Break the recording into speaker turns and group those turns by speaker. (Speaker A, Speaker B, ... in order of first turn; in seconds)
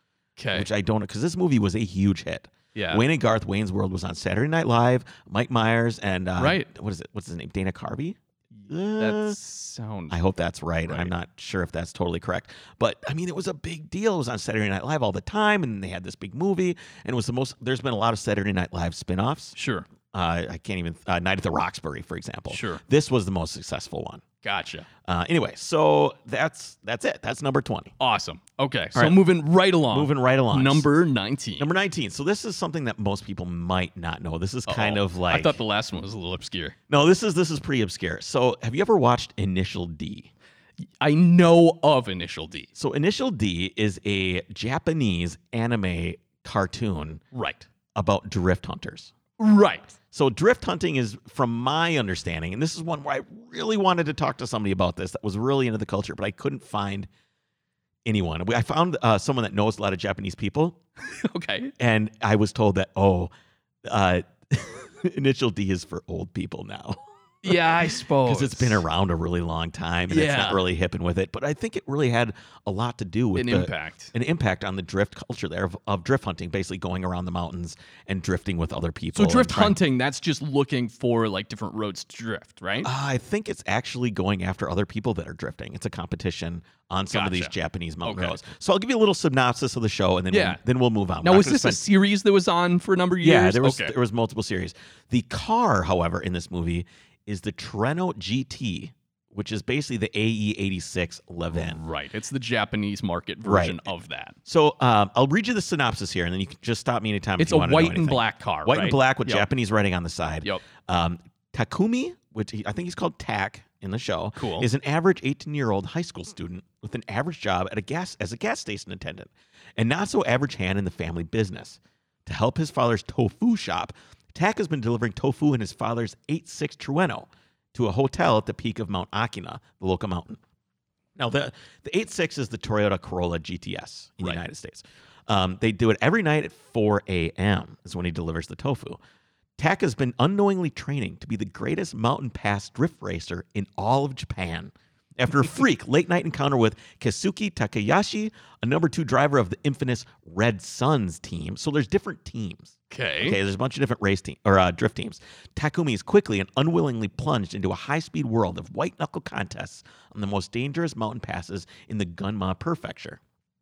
Speaker A: 0.4-0.7, 2.7-3.0, 6.4-6.7, 8.6-10.2, 10.8-11.1, 19.6-19.9, 22.5-22.8, 24.4-24.9, 28.0-31.7, 34.7-36.8, 41.0-42.7, 47.3-47.7, 49.4-49.9, 61.1-61.7, 67.4-68.8, 70.1-70.6, 73.3-74.1, 79.1-82.9, 87.1-88.4, 90.3-90.6, 91.2-93.9, 101.5-104.3, 107.4-109.5, 114.3-114.7, 152.9-153.4
Speaker B: 0.5-9.4, 10.1-19.6, 20.1-24.2, 25.0-27.9, 28.9-29.2, 29.9-30.9, 31.6-35.6, 36.9-40.3, 42.7-47.2, 47.9-49.1, 50.1-57.1, 58.0-60.8, 61.8-63.3, 63.8-79.8, 82.8-91.8, 93.2-101.8, 103.4-103.9, 104.5-130.4, 131.2-139.0, 139.6-163.2